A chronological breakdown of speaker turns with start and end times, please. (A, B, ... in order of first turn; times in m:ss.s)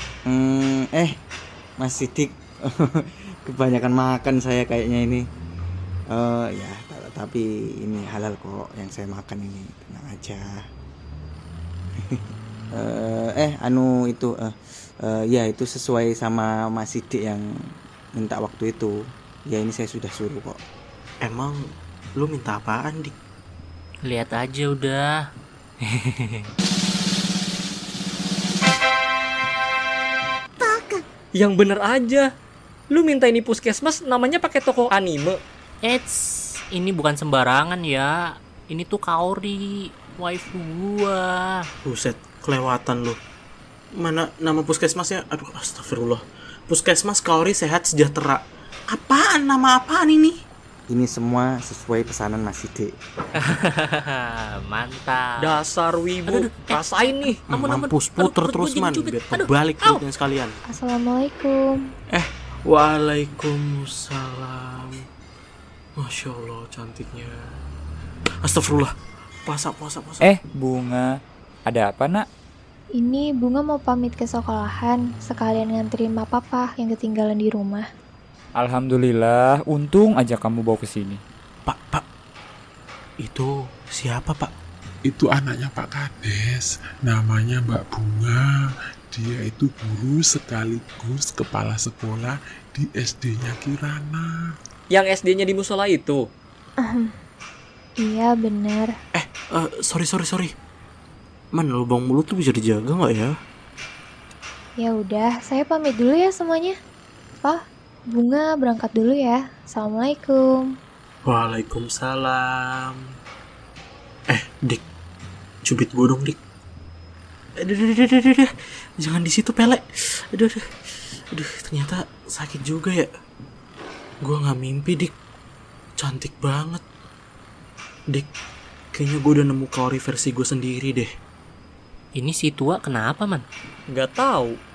0:00.3-0:01.2 A
0:01.8-0:05.2 A
0:06.1-0:10.6 A
0:12.7-0:17.4 A
0:18.2-0:19.0 A
0:19.5-0:20.6 A
0:21.2-0:21.6 B
0:22.2-0:23.1 B
0:24.0-0:25.1 C
0:26.0-0:26.4 C
0:30.6-0:32.2 D
0:32.9-0:35.4 D
0:35.8-0:41.6 C
0:41.8-0:43.2 B
0:43.9-0:50.4 B
0:50.9-0:52.9 A
0:53.6-0:55.6 C
0:55.4-0:57.4 D
0:56.3-1:00.0 C
0:57.5-1:00.6 B
1:00.7-1:01.8 E
1:02.1-1:04.9 B
1:06.0-1:07.3 B
1:08.4-1:08.9 B
1:09.4-1:10.3 B
1:10.2-1:11.1 F
1:11.7-1:12.2 F
1:12.9-1:17.8 E
1:18.6-1:21.2 F
1:21.6-1:22.0 B
1:23.2-1:24.5 B
1:25.0-1:28.6 G
1:29.1-1:34.5 G
1:34.9-1:36.2 D
1:36.8-1:37.1 E
1:38.0-1:38.9 E
1:39.1-1:40.5 B
1:41.5-1:43.3 B
1:44.8-1:46.8 E
1:48.1-1:50.7 E
1:51.2-1:53.0 B
1:54.3-1:54.8 B
1:55.6-1:56.4 B
1:57.6-1:58.5 B
1:59.0-2:00.6 B
2:01.3-2:03.1 B
2:04.2-2:05.1 B
2:06.0-2:06.8 B
2:08.9-2:11.1 B
2:12.2-2:13.4 C
2:13.9-2:14.5 D